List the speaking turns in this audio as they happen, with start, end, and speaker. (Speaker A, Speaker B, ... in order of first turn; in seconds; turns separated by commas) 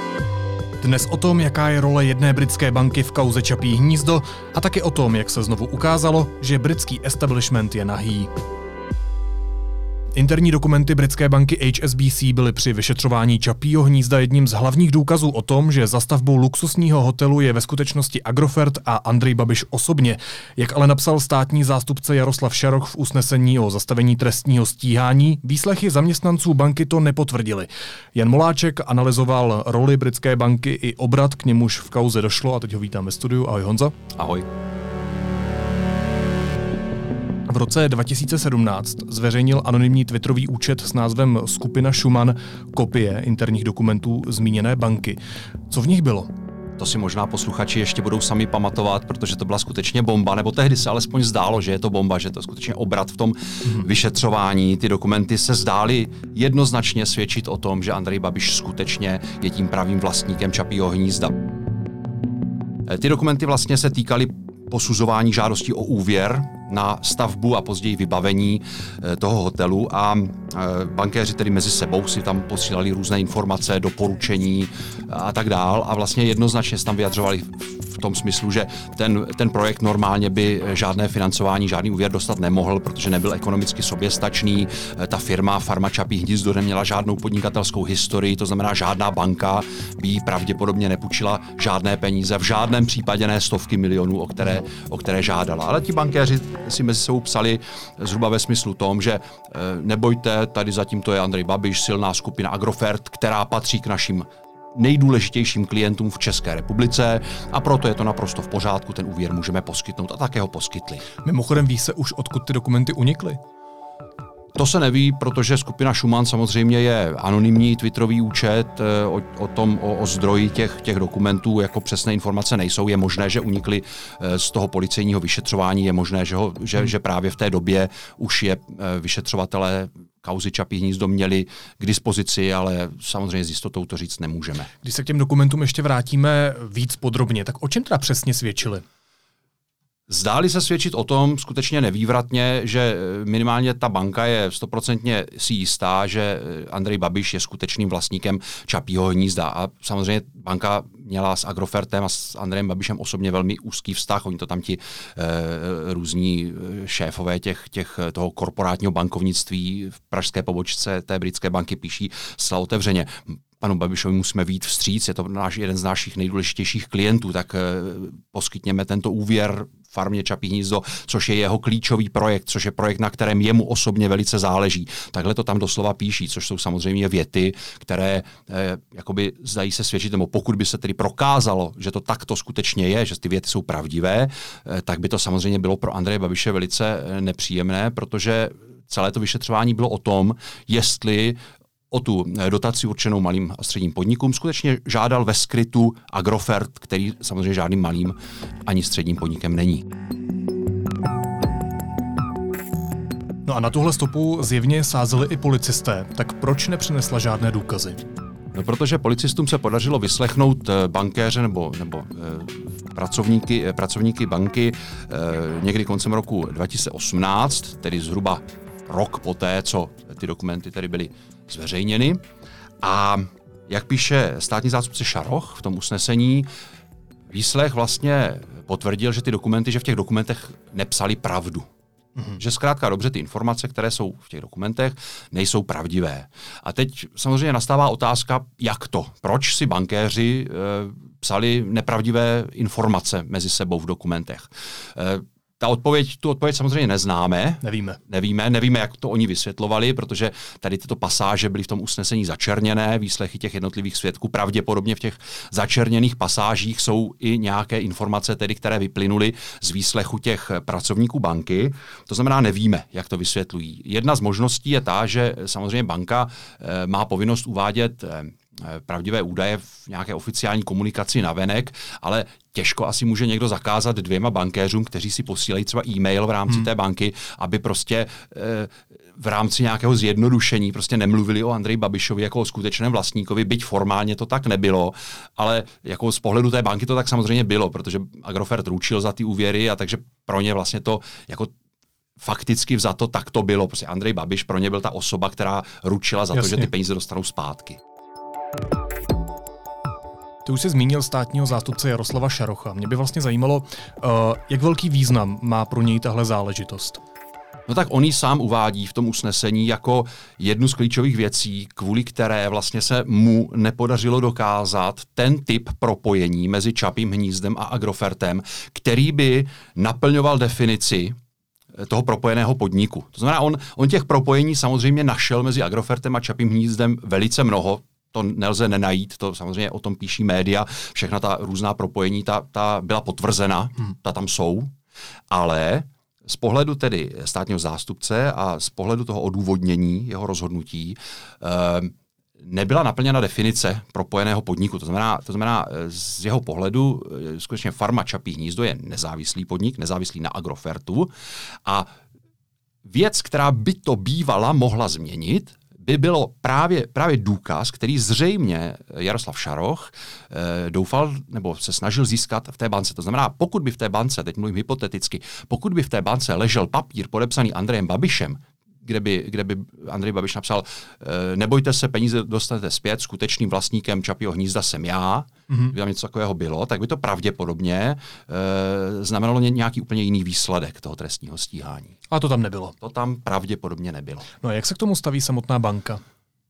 Speaker A: 0.8-8.3, Speaker A: 10.1-33.9, Speaker B: 34.1-34.5, Speaker A: 37.5-46.3, Speaker B: 46.8-61.4, Speaker B: 62.9-111.1, Speaker A: 111.2-113.4, Speaker B: 114.5-134.7, Speaker A: 134.8-138.8, Speaker B: 140.1-191.4, Speaker B: 191.9-199.8, Speaker A: 203.4-208.0, Speaker B: 208.5-222.2, Speaker B: 222.8-226.5, Speaker B: 227.3-231.7, Speaker B: 232.3-291.5, Speaker A: 247.6-248.0, Speaker B: 292.2-297.8, Speaker A: 296.3-296.7, Speaker A: 300.4-307.0, Speaker B: 307.7-321.1, Speaker B: 321.8-334.7, Speaker B: 335.3-351.1, Speaker B: 352.9-382.0, Speaker A: 382.1-382.7, Speaker B: 382.8-384.3, Speaker A: 384.4-386.0